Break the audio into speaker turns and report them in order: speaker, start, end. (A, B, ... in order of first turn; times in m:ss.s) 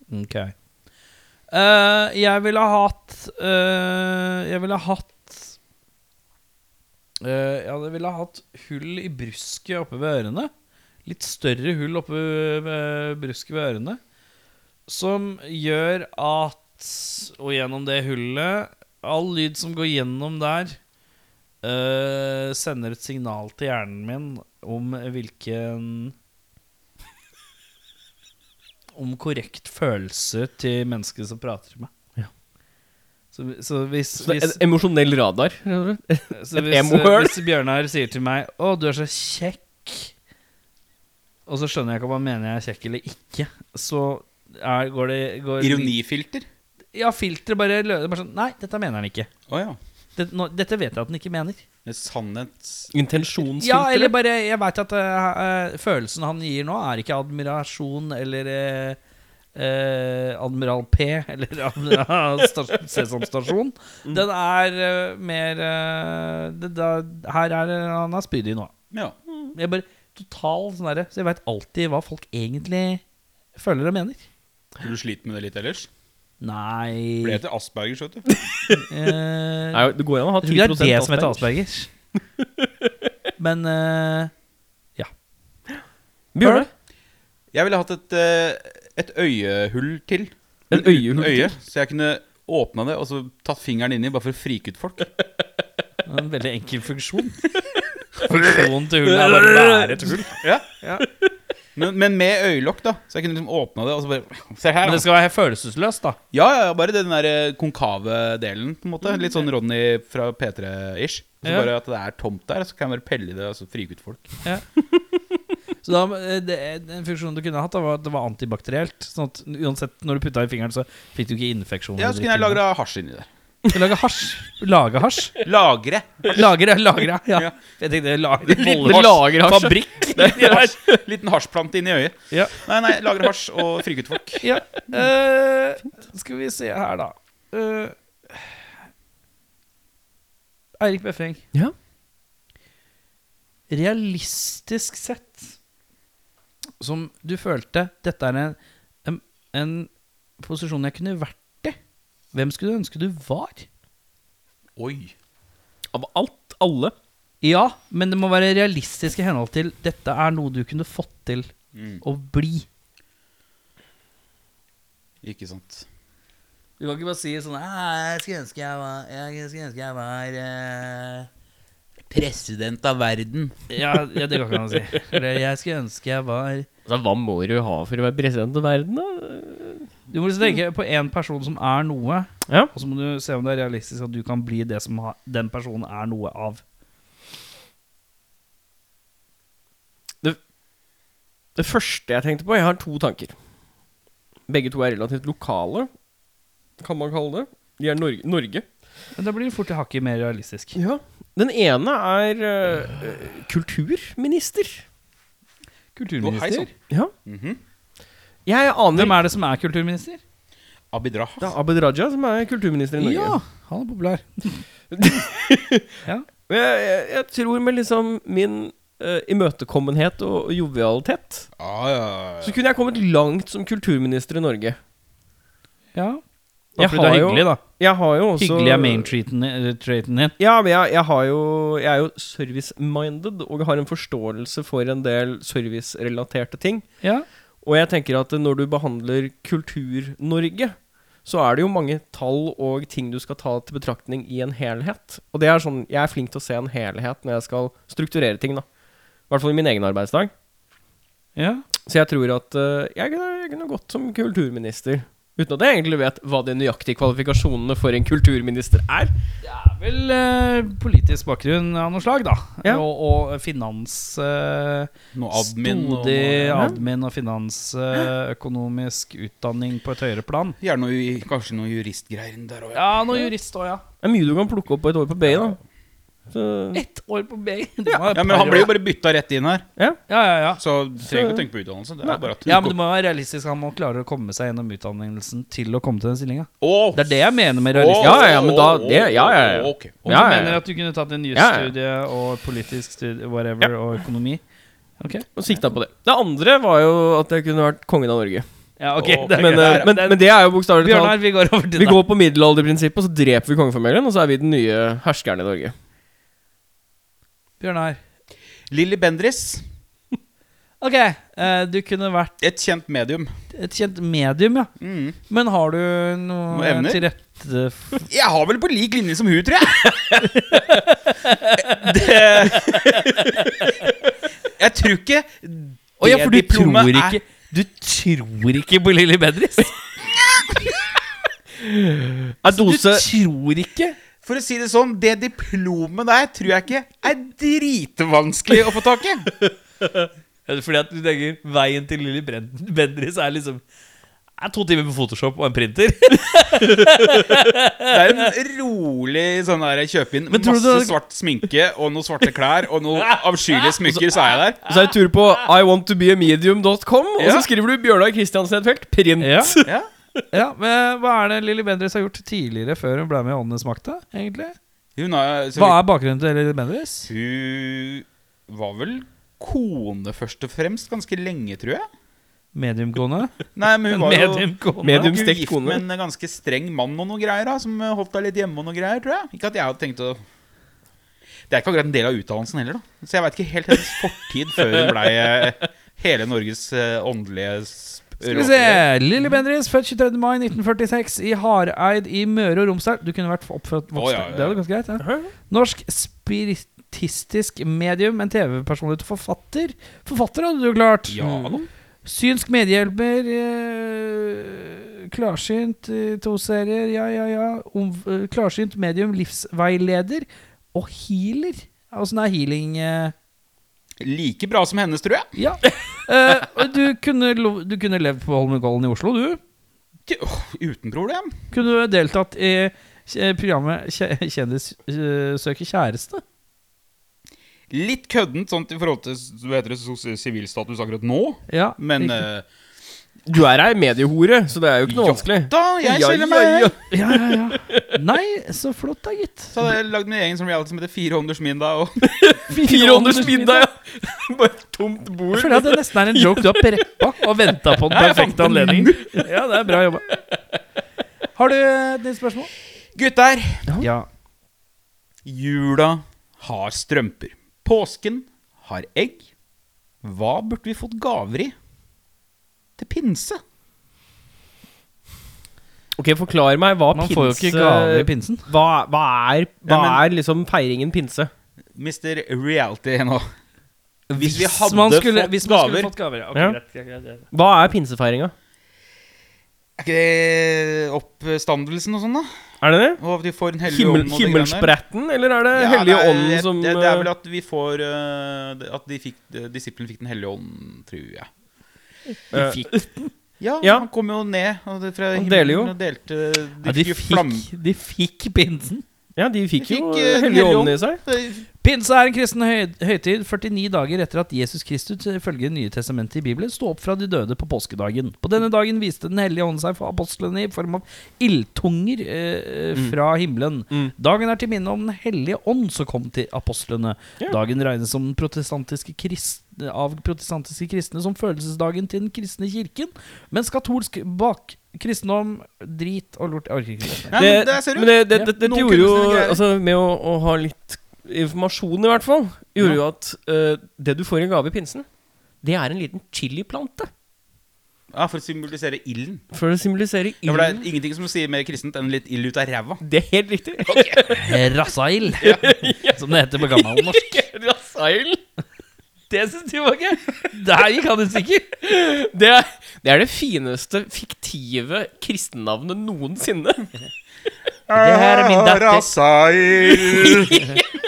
0:00.1-0:00.5 A
0:01.5-0:05.6 A
0:07.2-0:10.5 A
0:11.0-0:14.0 A
0:14.9-0:20.8 A
0:21.6-0:26.1 A
0:29.0-0:31.9 A
0:33.3-0:34.6 A
0:34.2-0:37.4 B
0:36.3-0:40.1 A
0:41.5-0:45.9 A
0:45.6-0:46.5 C
0:46.9-0:49.3 A
0:49.5-0:49.8 C
0:50.2-0:51.6 A
0:51.8-0:52.9 C
0:52.9-0:54.1 B
0:53.6-0:59.0 A
0:59.5-1:08.7 A
1:09.5-1:13.0 A
1:13.5-1:14.2 A
1:14.8-1:15.9 C
1:16.4-1:17.4 A
1:17.2-1:18.2 C
1:18.8-1:21.9 A
1:19.7-1:21.4 B
1:22.4-1:22.7 B
1:23.4-1:24.3 A
1:26.3-1:26.7 B
1:26.4-1:26.7 A
1:27.5-1:35.1 C
1:30.7-1:31.5 B
1:36.0-1:37.4 A
1:38.2-1:41.0 A
1:39.0-1:40.2 B
1:40.4-1:40.7 C
1:41.7-1:45.1 C
1:44.8-1:46.2 A
1:46.3-1:54.4 C
1:51.4-1:51.7 A
1:55.8-2:02.6 A
2:02.0-2:03.3 C
2:03.7-2:05.4 A
2:05.4-2:06.5 C
2:06.3-2:10.8 A
2:08.4-2:09.2 C
2:08.6-2:11.0 B
2:10.2-2:14.5 C
2:12.3-2:12.6 A
2:14.4-2:18.5 A
2:20.8-2:21.4 A
2:23.7-2:25.5 A
2:26.8-2:31.8 A
2:32.3-2:33.6 A
2:34.8-2:35.1 C
2:35.9-2:36.9 B
2:37.4-2:41.5 A
2:41.7-2:42.0 C
2:42.0-2:42.6 A
2:45.2-2:45.8 C
2:46.8-2:51.3 A
2:52.1-2:53.6 C
2:53.7-2:56.7 A
2:56.9-2:59.9 B
3:00.1-3:06.6 A
3:11.6-3:13.4 B
3:14.5-3:15.9 B
3:16.8-3:18.6 B
3:19.2-3:20.8 A
3:20.7-3:24.8 B
3:26.0-3:26.7 A
3:26.2-3:26.7 C
3:27.2-3:27.6 C
3:28.4-3:29.2 B
3:28.9-3:30.2 A
3:30.9-3:31.5 C
3:31.4-3:33.4 B
3:33.0-3:34.6 A
3:34.9-3:35.9 B
3:36.5-3:41.5 B
3:41.6-3:42.6 C
3:42.4-3:44.8 B
3:45.9-3:46.2 A
3:46.8-3:47.6 A
3:46.8-3:49.1 B
3:48.4-3:50.3 A
3:50.4-3:56.8 B
3:57.6-4:08.6 B
4:09.3-4:10.3 B
4:11.4-4:11.6 A
4:11.9-4:19.1 B
4:19.4-4:30.6 A
4:25.1-4:26.8 C
4:30.6-4:33.2 C
4:32.7-4:33.8 A
4:34.0-4:35.6 B
4:36.3-4:36.8 B
4:36.7-4:38.7 A
4:38.1-4:39.7 C
4:40.1-4:40.6 A
4:40.6-4:42.8 C
4:41.0-4:41.4 B
4:42.4-4:48.4 A
4:46.6-4:47.2 C
4:47.7-4:50.4 C
4:48.0-4:50.6 B
4:50.1-4:54.4 A
4:51.3-4:51.7 B
4:55.0-4:55.2 A
4:55.4-4:58.4 B
4:58.8-5:02.0 A
4:59.0-4:59.9 C
4:59.3-5:01.2 B
5:01.8-5:05.7 B
5:07.6-5:08.0 A
5:08.7-5:09.7 C
5:10.8-5:12.3 A
5:12.4-5:13.3 C
5:13.5-5:14.7 A
5:14.8-5:15.2 C
5:15.3-5:18.1 A
5:16.5-5:17.0 C
5:18.1-5:20.2 C
5:20.2-5:23.7 A
5:21.6-5:23.1 C
5:24.6-5:27.2 C
5:26.0-5:29.8 A
5:30.1-5:30.8 C
5:31.6-5:33.1 B
5:32.5-5:34.0 A
5:34.2-5:39.3 C
5:40.5-5:43.6 A
5:44.4-5:48.3 A
5:46.8-5:47.3 B
5:47.9-5:54.6 C
5:50.3-5:51.0 A
5:53.8-5:59.7 B
5:57.2-5:57.5 C
5:59.2-5:59.6 A
6:00.3-6:04.5 A
6:05.0-6:05.8 C
6:05.5-6:07.1 A
6:07.1-6:11.8 C
6:12.5-6:15.1 A
6:13.5-6:20.2 C
6:14.8-6:15.8 B
6:21.5-6:28.8 C
6:28.2-6:41.2 A
6:33.9-6:34.6 C
6:35.0-6:35.3 B
6:41.1-6:41.6 C
6:41.2-6:41.6 B
6:42.0-6:53.1 A
6:54.0-6:55.3 C
6:55.4-6:59.4 A
7:00.0-7:01.4 C
7:01.5-7:06.2 A
7:07.7-7:12.4 C
7:11.5-7:12.2 A
7:13.3-7:17.9 B
7:14.9-7:16.8 C
7:16.9-7:19.7 A
7:19.5-7:22.0 C
7:22.0-7:26.8 B
7:22.5-7:23.7 A
7:25.3-7:30.1 A
7:27.9-7:29.2 C
7:31.4-7:32.5 A
7:32.9-7:33.7 C
7:33.8-7:34.0 A
7:35.2-7:39.2 C
7:40.0-7:41.5 C
7:42.8-7:43.4 C
7:46.0-7:51.3 B
7:46.9-7:48.5 A
7:49.6-7:50.0 C
7:51.7-7:53.2 C
7:54.1-7:57.2 A
7:54.2-7:55.9 C
7:57.3-7:58.3 B
7:59.8-8:02.3 C
8:02.6-8:03.0 B
8:03.0-8:04.7 C
8:03.7-8:07.1 B
8:05.5-8:11.3 C
8:12.3-8:12.7 B
8:12.3-8:13.1 A
8:13.4-8:17.4 C
8:13.6-8:13.9 B
8:15.1-8:15.7 B
8:16.6-8:18.8 A
8:19.2-8:21.0 B
8:19.6-8:21.4 C
8:21.6-8:47.2 A
8:47.1-8:49.4 C
8:47.1-8:54.9 B
8:55.4-8:56.9 B
8:57.9-8:59.2 C
8:59.3-9:00.6 B
9:00.2-9:02.8 C
9:02.8-9:04.2 B
9:03.6-9:04.2 C
9:04.1-9:07.2 A
9:05.2-9:08.2 B
9:09.1-9:11.6 A
9:11.6-9:16.7 B
9:17.7-9:20.5 C
9:17.7-9:18.9 A
9:19.9-9:20.6 B